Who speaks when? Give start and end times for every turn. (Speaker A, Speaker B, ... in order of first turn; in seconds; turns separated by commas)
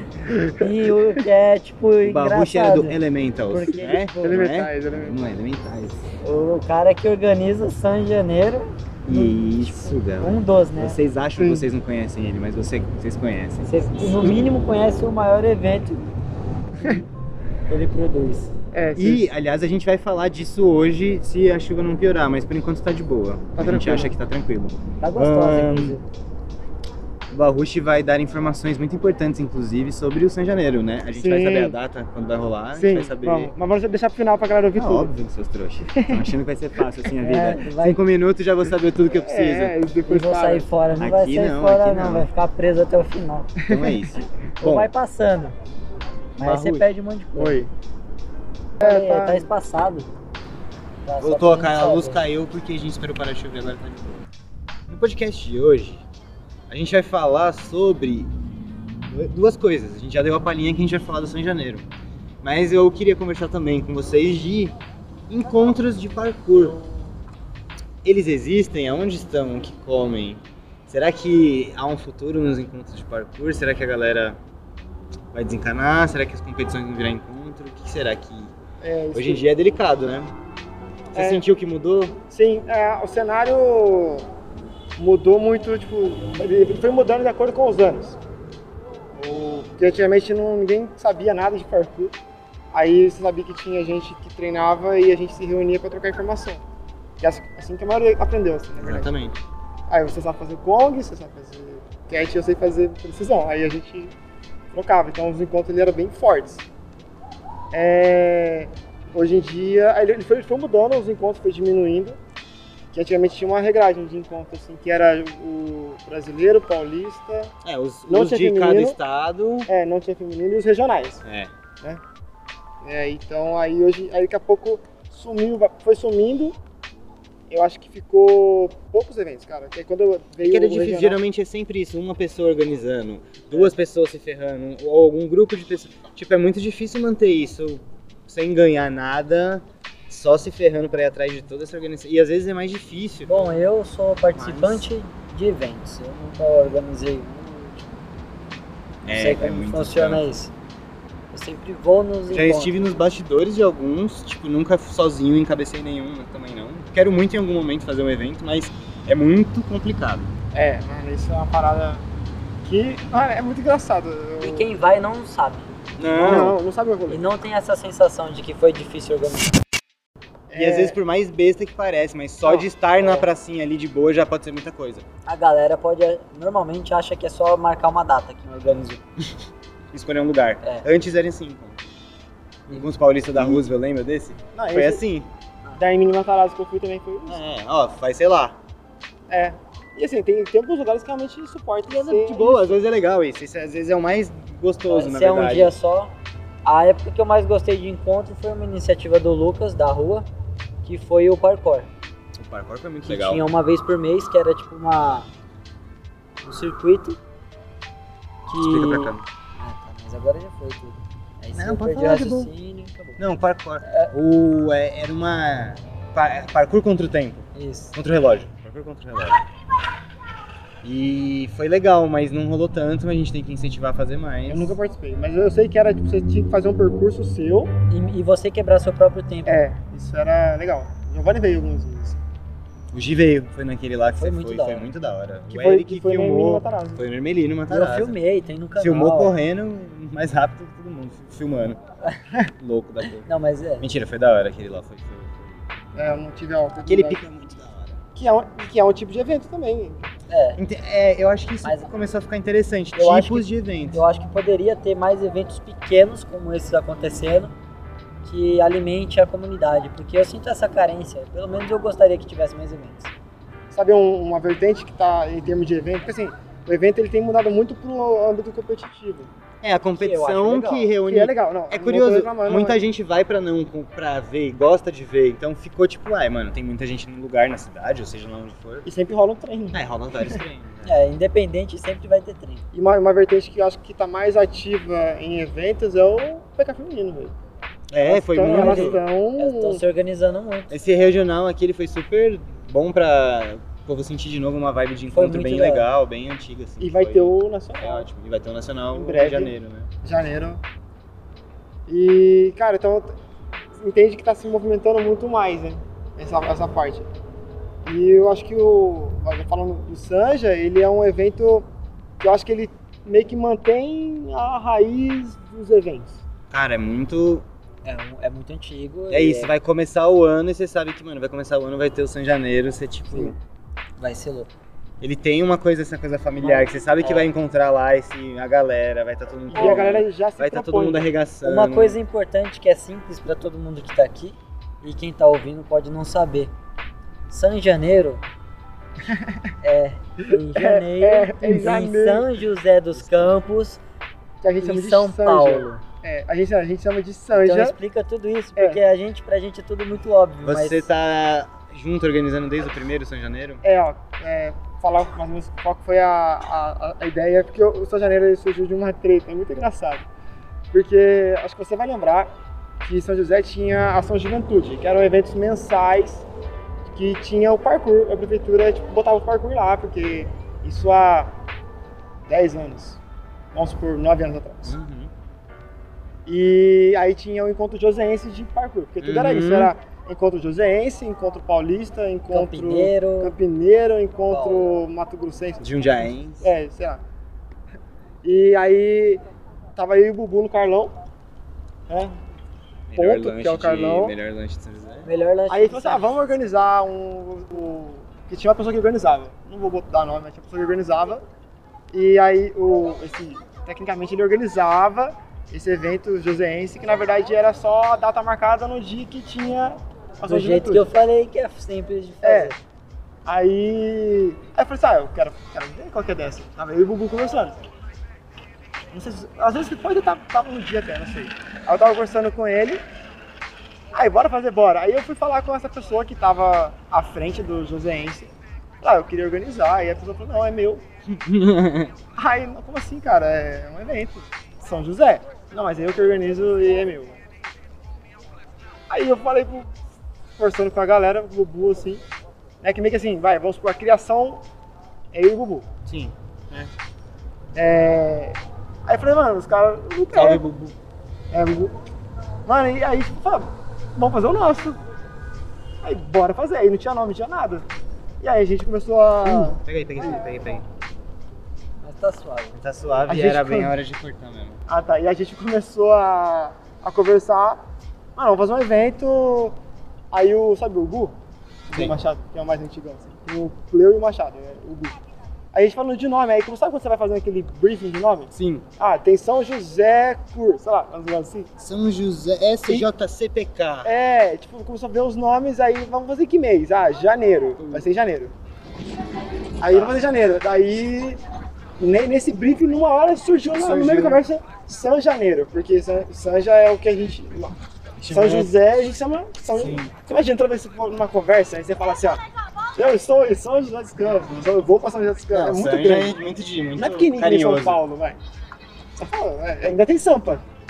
Speaker A: 0.3-1.2, Speaker B: 0.5-3.0, Speaker C: 2.0-6.0, Speaker B: 3.5-4.4, Speaker A: 4.2-5.2, Speaker B: 6.2-11.0, Speaker C: 9.1-13.7, Speaker A: 11.4-11.7, Speaker B: 13.7-16.1, Speaker B: 17.7-18.6, Speaker A: 18.7-19.3, Speaker C: 19.0-26.0, Speaker A: 23.6-24.1, Speaker B: 25.0-26.1, Speaker C: 27.3-33.5, Speaker A: 31.1-31.8, Speaker A: 32.8-35.1, Speaker C: 34.8-39.8, Speaker A: 35.9-36.3, Speaker B: 37.2-38.0, Speaker A: 39.1-40.7, Speaker B: 40.1-43.5, Speaker C: 41.0-42.3, Speaker C: 43.7-44.9, Speaker B: 44.6-45.5, Speaker B: 46.4-47.6, Speaker C: 46.4-46.9, Speaker A: 47.4-47.7, Speaker A: 48.8-49.5, Speaker B: 48.8-50.1, Speaker B: 51.0-52.2, Speaker C: 51.2-54.3, Speaker C: 54.9-56.0, Speaker C: 56.7-58.3, Speaker C: 59.1-61.9, Speaker C: 62.4-64.8, Speaker C: 65.3-66.8, Speaker C: 68.0-74.4, Speaker C: 75.3-78.5, Speaker A: 78.8-79.5, Speaker C: 79.1-80.3, Speaker A: 81.1-81.5, Speaker C: 81.1-82.2, Speaker A: 82.3-84.3, Speaker A: 85.0-88.2, Speaker A: 89.1-92.2, Speaker A: 92.7-96.6, Speaker A: 97.2-99.1, Speaker C: 98.8-99.4, Speaker A: 99.9-104.1, Speaker A: 104.7-106.6, Speaker A: 107.7-112.2, Speaker A: 112.9-117.5, Speaker C: 117.6-119.7, Speaker A: 118.1-119.0, Speaker A: 119.7-121.2, Speaker C: 121.2-121.5, Speaker A: 122.8-126.6, Speaker A: 127.5-131.2, Speaker C: 130.4-143.5, Speaker B: 143.2-148.1, Speaker C: 144.3-144.8, Speaker C: 149.1-150.3, Speaker B: 149.1-150.5, Speaker B: 151.3-152.7, Speaker C: 152.3-160.3, Speaker A: 160.5-162.0, Speaker A: 162.6-164.7, Speaker B: 164.4-166.5, Speaker C: 166.0-166.6, Speaker A: 166.2-167.2, Speaker B: 167.1-169.5, Speaker A: 170.5-171.0, Speaker C: 170.6-175.1, Speaker B: 172.4-173.3, Speaker B: 175.3-179.0, Speaker C: 179.9-181.8, Speaker C: 182.7-185.3, Speaker A: 183.4-183.7, Speaker A: 184.5-185.0, Speaker A: 185.8-187.4, Speaker C: 187.3-188.6, Speaker A: 189.3-192.8, Speaker C: 191.9-195.8, Speaker B: 194.9-196.1, Speaker B: 196.7-200.3, Speaker B: 200.8-201.9, Speaker C: 202.4-203.4, Speaker B: 203.1-205.3, Speaker B: 206.4-207.2, Speaker B: 208.5-213.2, Speaker C: 208.6-209.2, Speaker C: 211.6-212.5, Speaker C: 213.2-219.4, Speaker B: 213.8-214.1, Speaker B: 217.6-217.9, Speaker C: 220.8-224.8, Speaker A: 224.5-227.7, Speaker B: 227.9-229.6, Speaker A: 229.5-232.2, Speaker C: 232.9-238.2, Speaker B: 234.2-234.9, Speaker A: 235.5-237.0, Speaker B: 237.7-239.3, Speaker C: 238.8-241.8, Speaker C: 242.6-243.3, Speaker B: 243.2-243.9, Speaker C: 243.8-245.7, Speaker A: 245.9-247.2, Speaker C: 246.9-248.0, Speaker A: 248.2-250.1, Speaker B: 250.3-250.6, Speaker C: 250.6-254.0, Speaker B: 251.6-251.9, Speaker B: 252.9-257.5, Speaker B: 258.2-263.1, Speaker A: 263.7-269.3, Speaker C: 269.6-278.9, Speaker B: 270.0-270.9, Speaker A: 271.1-272.8, Speaker A: 278.9-279.8, Speaker C: 279.7-280.9, Speaker B: 280.8-282.6, Speaker A: 282.7-287.4, Speaker C: 287.9-289.0, Speaker A: 288.0-289.8, Speaker B: 288.4-290.7, Speaker C: 290.7-299.9, Speaker B: 295.1-295.9, Speaker A: 296.8-298.1, Speaker A: 298.9-300.6, Speaker A: 301.9-303.2, Speaker A: 303.8-307.1, Speaker A: 307.9-311.7, Speaker A: 312.2-316.2, Speaker C: 316.5-317.5, Speaker B: 317.9-319.5, Speaker C: 319.1-323.4, Speaker B: 324.0-324.5, Speaker C: 325.0-332.0, Speaker B: 326.4-327.3, Speaker A: 329.5-331.1, Speaker B: 329.6-329.9, Speaker B: 331.4-336.5, Speaker B: 337.3-338.2, Speaker A: 339.0-339.5, Speaker B: 339.6-343.8, Speaker A: 340.2-342.3, Speaker A: 344.4-347.8, Speaker B: 344.6-345.8, Speaker B: 347.3-350.9, Speaker A: 348.6-348.8, Speaker C: 350.4-353.6, Speaker A: 353.6-360.1, Speaker A: 360.7-366.3, Speaker A: 366.9-371.4, Speaker A: 372.3-373.0, Speaker A: 373.5-374.8, Speaker C: 374.6-375.1, Speaker A: 376.3-385.7, Speaker C: 379.0-379.7, Speaker B: 382.3-383.4, Speaker B: 384.3-384.8, Speaker C: 385.6-386.5, Speaker A: 386.4-387.0, Speaker A: 388.2-389.2, Speaker A: 389.8-391.0, Speaker A: 391.9-392.2, Speaker C: 392.9-395.1, Speaker A: 393.0-394.1, Speaker B: 395.1-396.1, Speaker A: 395.5-401.2, Speaker A: 401.9-410.9, Speaker B: 410.3-412.6, Speaker A: 412.2-412.5, Speaker A: 413.3-417.6, Speaker A: 418.9-422.8, Speaker A: 423.9-430.8, Speaker C: 431.1-431.9, Speaker A: 432.2-437.2, Speaker A: 438.9-439.7, Speaker A: 440.4-442.0, Speaker A: 442.6-444.4, Speaker A: 445.1-445.7, Speaker C: 445.9-446.7, Speaker A: 447.6-450.4, Speaker C: 450.1-450.8, Speaker A: 451.3-451.8, Speaker A: 452.5-454.8, Speaker A: 455.8-457.6, Speaker A: 458.2-460.2, Speaker C: 459.5-460.7, Speaker B: 461.8-462.6, Speaker C: 462.6-464.6, Speaker A: 463.1-463.8, Speaker A: 464.7-467.6, Speaker A: 468.2-469.6, Speaker A: 470.1-471.2, Speaker A: 471.7-475.0, Speaker A: 475.5-481.5, Speaker C: 478.3-478.7, Speaker C: 481.6-483.9, Speaker A: 483.8-488.3, Speaker A: 489.6-491.2, Speaker A: 491.8-497.6, Speaker C: 493.5-494.2, Speaker C: 498.0-498.5, Speaker A: 498.1-502.2, Speaker C: 499.6-499.9, Speaker A: 502.8-506.2, Speaker C: 505.3-507.8, Speaker A: 506.8-508.2, Speaker A: 509.0-510.4